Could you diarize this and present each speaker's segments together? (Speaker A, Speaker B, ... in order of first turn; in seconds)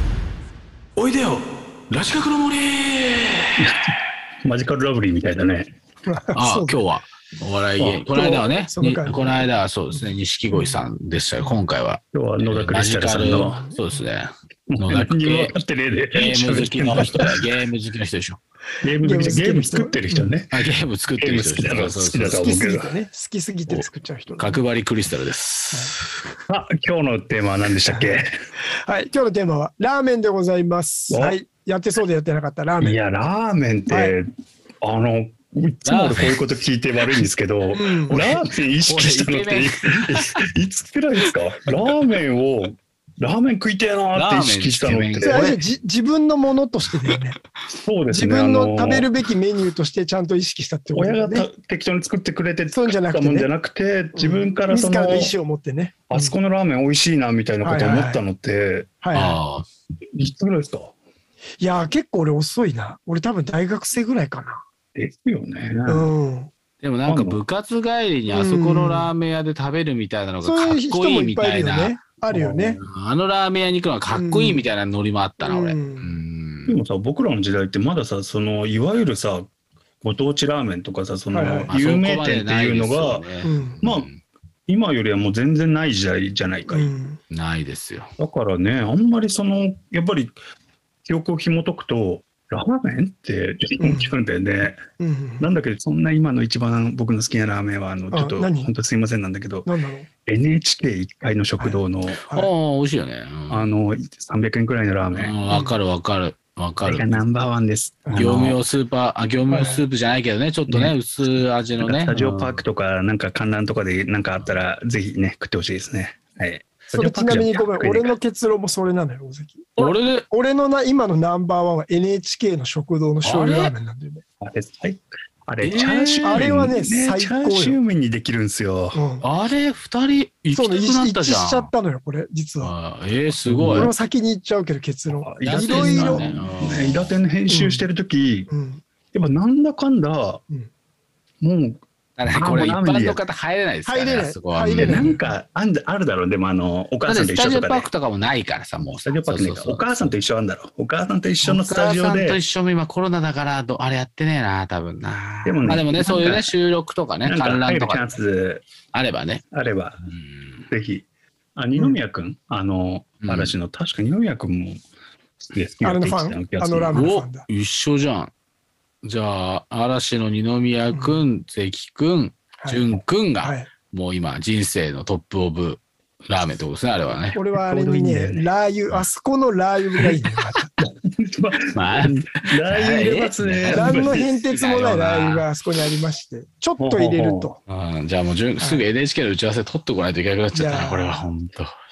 Speaker A: 0.9-3.7, 6.3-15.6, 16.1-18.4, 20.5-22.5, 24.4-26.1, 35.8-36.3, 38.1-40.4, 44.1-45.6, 59.1-59.7, 66.8-72.0, 72.8-76.8, 81.7-84.2, 87.3-88.1, 102.3-103.7, 105.2-107.2, 108.1-112.6, 119.8-120.2, 123.2-123.7, 125.6-126.4, 129.2-131.7, 132.6-133.9, 135.4-137.2, 142.2-145.2, 147.1-150.1, 151.4-158.2, 158.9-159.4, 160.1-160.6, 163.2-163.5, 166.9-168.3, 169.0-177.4, 181.7-185.4, 187.7-191.7
Speaker B: 3.6-3.9, 4.4-5.7, 7.8-8.1, 12.1-13.6, 14.7-17.2, 18.8-20.7, 21.2-22.9, 26.5-28.3, 31.1-31.4, 32.8-34.3, 34.8-45.5, 47.8-49.1, 50.9-55.4, 56.1-58.9, 60.1-60.9, 64.9-66.1, 67.1-67.4, 72.3-72.8, 76.7-79.5, 80.0-84.1, 84.7-86.9, 88.2-90.3, 91.0-94.8, 95.4-99.7, 100.2-102.2, 103.5-105.3, 106.8-108.6, 110.7-110.9, 111.8-118.1, 124.4-129.0, 133.4-133.9, 135.1-138.5, 139.1-140.4, 141.4-143.2, 144.8-147.9, 148.9-152.4, 155.4-156.5, 157.2-158.6, 159.5-160.1, 160.7-161.0, 161.6-164.8, 165.5-167.0, 177.6-178.5, 180.8-184.4, 186.8-187.5
Speaker C: 6.0-6.8, 8.1-10.8, 13.2-14.0, 16.9-17.2, 19.0-20.3, 22.3-24.6, 27.9-28.2, 28.8-33.0, 33.9-34.1, 37.7-38.2, 45.2-47.4, 48.1-51.5, 52.7-53.5, 54.1-56.4, 57.6-58.2, 59.0-59.4, 61.6-64.6, 65.8-66.5, 68.3-69.1, 70.4-72.8, 74.1-74.7, 75.4-76.2, 81.3-81.7, 83.4-83.8, 86.7-87.2, 93.8-94.1, 95.0-95.5, 98.1-98.7, 99.6-100.1, 101.6-102.5, 105.5-105.8, 109.5-109.8, 116.9-124.2, 126.2-127.8, 128.9-129.3, 130.5-132.7, 133.7-136.3, 137.5-137.9, 138.5-138.8, 143.8-145.2, 165.8-167.5, 170.9-171.2, 173.4-173.7, 177.3-180.7, 183.7-187.6, 188.6-188.9, 190.5-191.3